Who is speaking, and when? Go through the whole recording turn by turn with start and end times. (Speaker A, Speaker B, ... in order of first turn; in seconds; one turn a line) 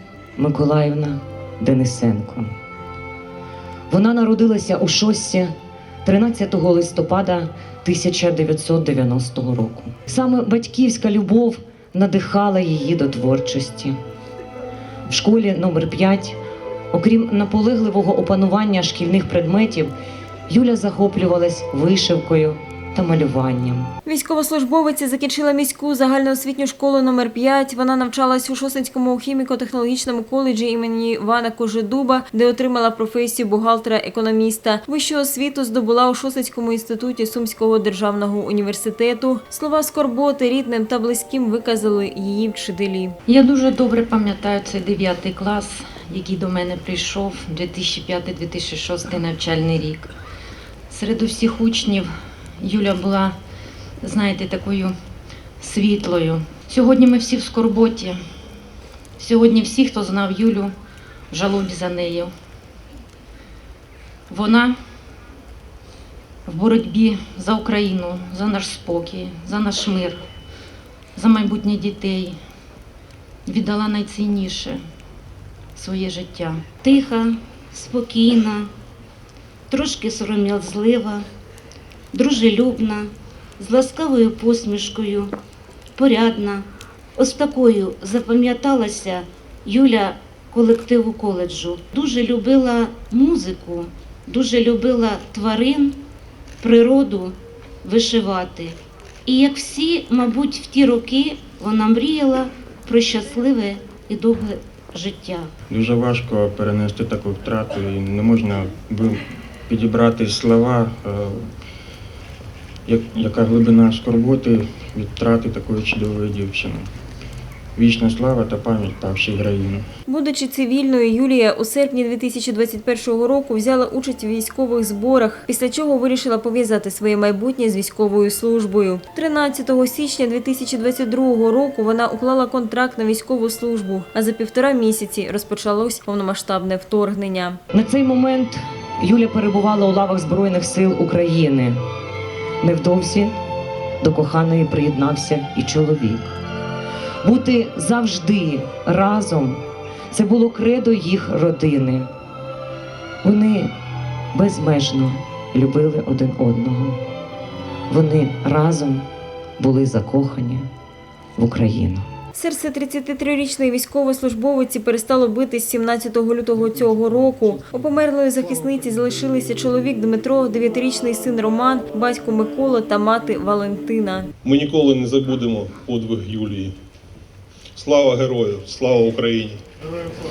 Speaker A: 0.3-2.5
Speaker A: 3.9-5.5
Speaker A: 6.0-13.9
Speaker A: 15.1-16.4
Speaker A: 16.9-19.9
Speaker A: 20.5-23.9
Speaker B: 24.1-43.1
Speaker C: 43.3-50.1
Speaker C: 50.9-53.4
Speaker C: 54.0-54.9
Speaker C: 55.6-58.2
Speaker C: 59.2-60.7
Speaker C: 61.3-62.3
Speaker C: 64.3-64.8
Speaker C: 66.5-70.2
Speaker C: 71.2-72.4
Speaker C: 73.4-74.8
Speaker C: 75.7-76.6
Speaker D: 76.8-78.7
Speaker D: 79.7-81.2
Speaker D: 82.1-85.3
Speaker D: 86.0-96.0
Speaker D: 96.6-105.5
Speaker E: 105.7-111.5
Speaker E: 112.9-116.9
Speaker E: 117.8-119.8
Speaker B: 120.1-137.6
Speaker A: 137.7-141.8
Speaker A: 142.6-143.3
Speaker A: 144.0-146.3
Speaker A: 147.2-152.1
Speaker A: 153.2-153.7
Speaker A: 154.3-157.0
Speaker A: 157.9-159.1
Speaker A: 159.6-160.7
Speaker A: 161.4-162.0
Speaker B: 162.3-174.3
Speaker F: 174.4-176.8
Speaker F: 177.7-179.6